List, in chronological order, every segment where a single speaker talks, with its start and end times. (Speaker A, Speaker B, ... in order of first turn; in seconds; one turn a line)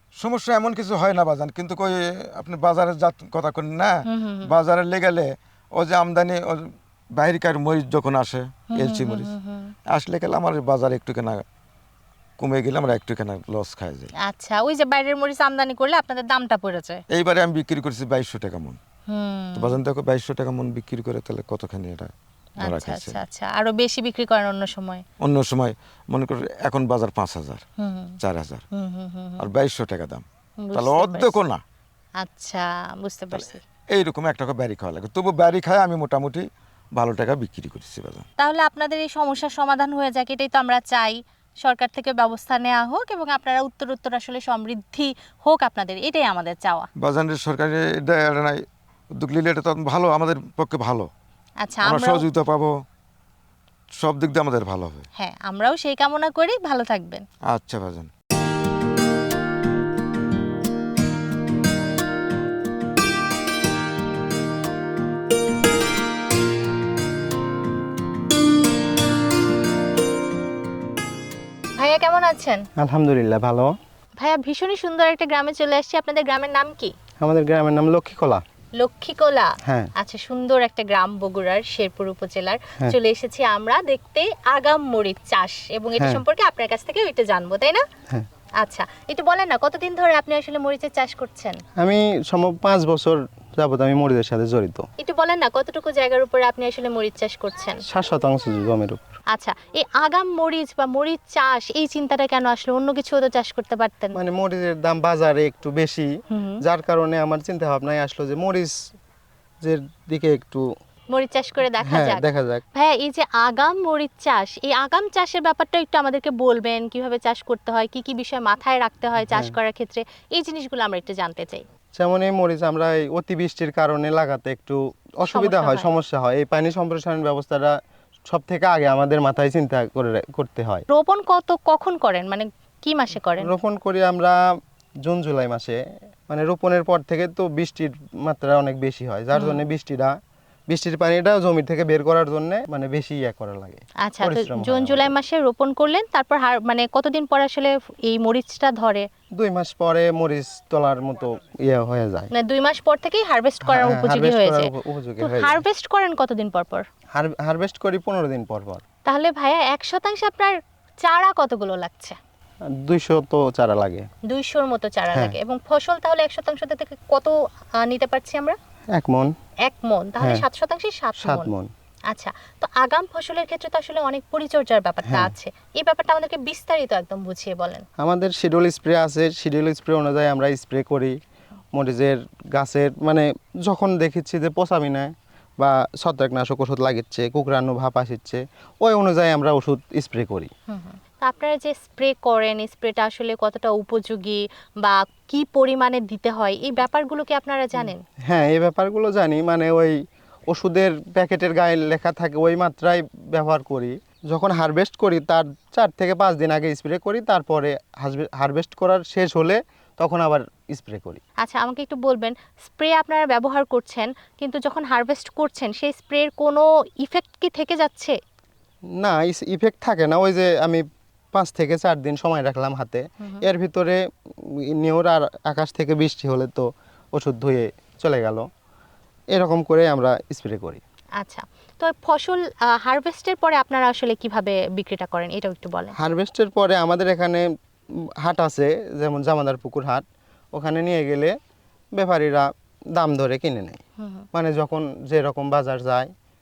Speaker A: 0.2-9.3
Speaker B: 4.1-4.5
Speaker B: 8.7-9.7
Speaker A: 9.9-11.4
Speaker A: 12.4-14.1
Speaker B: 14.2-17.0
Speaker A: 17.1-18.8
Speaker B: 19.1-19.8
Speaker A: 19.6-23.2
Speaker B: 22.6-25.0
Speaker A: 25.2-27.6
Speaker B: 27.8-28.2
Speaker A: 28.2-28.6
Speaker B: 28.7-29.5
Speaker A: 29.4-31.6
Speaker B: 30.6-31.4
Speaker B: 32.2-33.6
Speaker A: 33.3-38.2
Speaker B: 38.4-46.9
Speaker A: 47.0-48.6
Speaker A: 49.2-51.1
Speaker B: 51.6-52.3
Speaker A: 51.8-52.8
Speaker A: 54.0-55.1
Speaker B: 55.2-57.2
Speaker A: 57.5-58.1
Speaker B: 71.8-72.7
Speaker C: 72.8-73.7
Speaker B: 74.2-76.9
Speaker C: 77.2-78.4
Speaker B: 78.8-87.8
Speaker C: 79.7-79.9
Speaker C: 86.0-86.2
Speaker B: 88.6-91.6
Speaker C: 91.8-94.9
Speaker B: 95.0-97.8
Speaker C: 97.9-99.0
Speaker B: 99.3-104.2
Speaker C: 104.2-106.1
Speaker B: 106.3-106.6
Speaker C: 106.6-108.8
Speaker C: 109.6-110.7
Speaker B: 111.1-112.2
Speaker C: 111.8-112.6
Speaker B: 112.8-121.6
Speaker C: 119.3-119.5
Speaker C: 122.0-127.8
Speaker B: 125.3-125.9
Speaker C: 128.3-130.8
Speaker B: 130.9-133.5
Speaker C: 133.4-134.4
Speaker C: 135.1-140.2
Speaker B: 139.3-139.7
Speaker C: 140.7-145.1
Speaker B: 144.1-149.1
Speaker C: 149.4-152.3
Speaker B: 152.3-154.7
Speaker C: 153.6-155.6
Speaker B: 155.2-156.8
Speaker C: 157.2-158.8
Speaker B: 159.1-162.2
Speaker C: 162.8-164.1
Speaker B: 164.3-168.6
Speaker C: 168.9-169.3
Speaker B: 169.7-171.5
Speaker C: 170.2-170.4
Speaker C: 171.2-171.7
Speaker B: 172.1-177.8
Speaker C: 175.1-175.3
Speaker C: 178.0-181.2
Speaker C: 181.8-190.5
Speaker B: 190.7-198.0
Speaker C: 197.8-200.0
Speaker C: 200.5-211.2
Speaker B: 211.4-218.2
Speaker C: 219.0-224.0
Speaker C: 224.5-228.5
Speaker C: 229.3-230.8
Speaker B: 231.2-235.9
Speaker C: 236.0-237.4
Speaker C: 238.2-241.3
Speaker C: 242.0-243.8
Speaker B: 244.0-244.3
Speaker C: 244.3-246.1